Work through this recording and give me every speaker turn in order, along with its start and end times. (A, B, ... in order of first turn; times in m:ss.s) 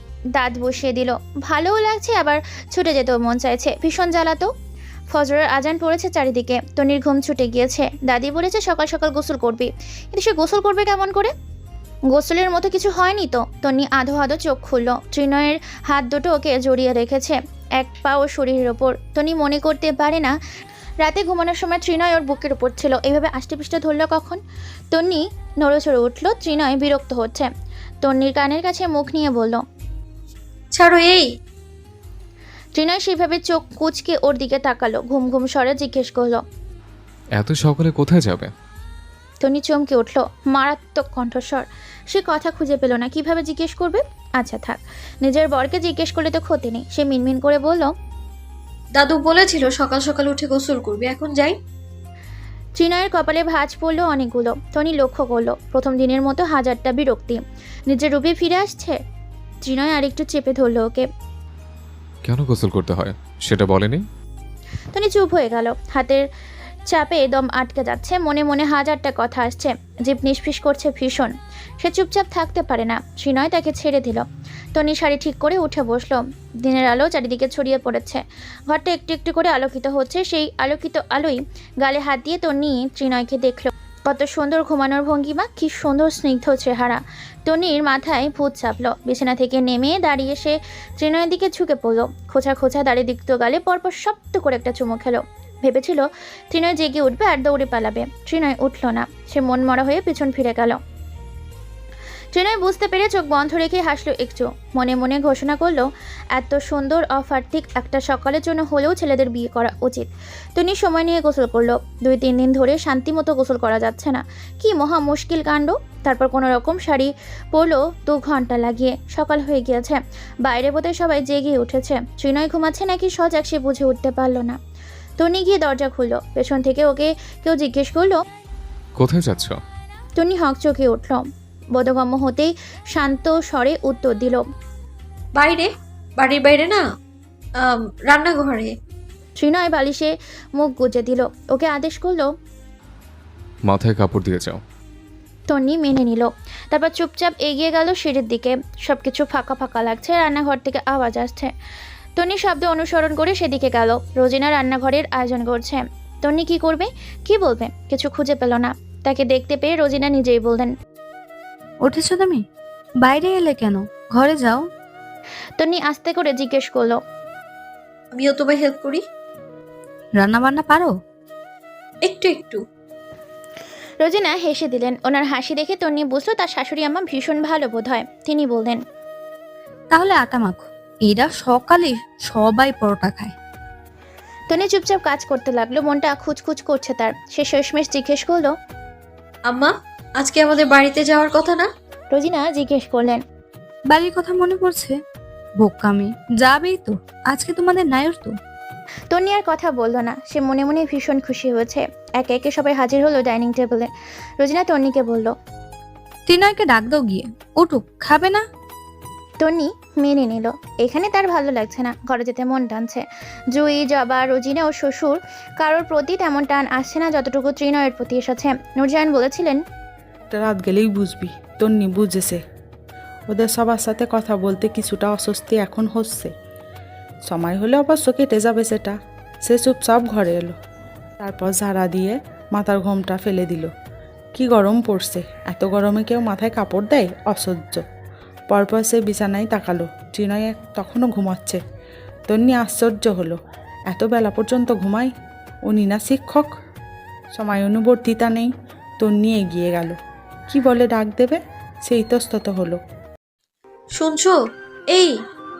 0:00.4-0:04.5 A
0:05.1-0:11.3 A
0:12.1-0:20.3 A
0:21.0-0:24.4 A
0:24.9-0:27.5 A
0:28.0-0:29.6 A
0:30.7-0:31.3 B
0:32.7-0:36.4 A
0:37.4-0:38.5 C
0:39.4-0:47.9 A
0:48.9-0:51.6 B
0:52.8-0:59.0 A
0:59.6-1:01.0 A
1:02.2-1:04.0 C
1:04.9-1:06.2 A
1:06.9-1:40.8 A
1:42.3-2:04.6 A
2:05.2-2:08.2 A
2:09.0-2:09.6 C
2:10.2-2:14.4 A
2:15.4-2:16.8 B
2:17.6-2:18.7 B
2:19.4-2:22.3 A
2:23.7-2:24.6 C
2:25.5-2:31.5 A
2:32.2-2:40.7 A
2:41.8-2:42.4 D
2:43.0-2:44.7 D
2:45.6-2:47.0 A
2:48.1-2:49.0 B
2:50.2-2:51.0 D
2:52.0-2:52.6 B
2:54.0-2:58.8 A
2:59.9-3:03.3 D
3:04.5-3:08.5 A
3:09.5-3:11.7 B
3:12.1-3:13.2 A
3:13.9-3:15.0 D
3:15.6-3:18.4 D
3:19.1-3:25.3 A
3:26.3-3:28.4 D
3:29.4-3:39.6 A
3:40.3-3:42.4 E
3:43.3-3:46.3 E
3:47.3-3:50.5 E
3:51.2-3:53.7 E
3:54.3-3:57.8 E
3:58.5-4:01.6 E
4:02.3-4:05.1 E
4:05.7-4:06.5 E
4:07.3-4:10.0 E
4:10.5-4:12.8 E
4:14.0-4:14.3 B
4:14.9-4:15.2 B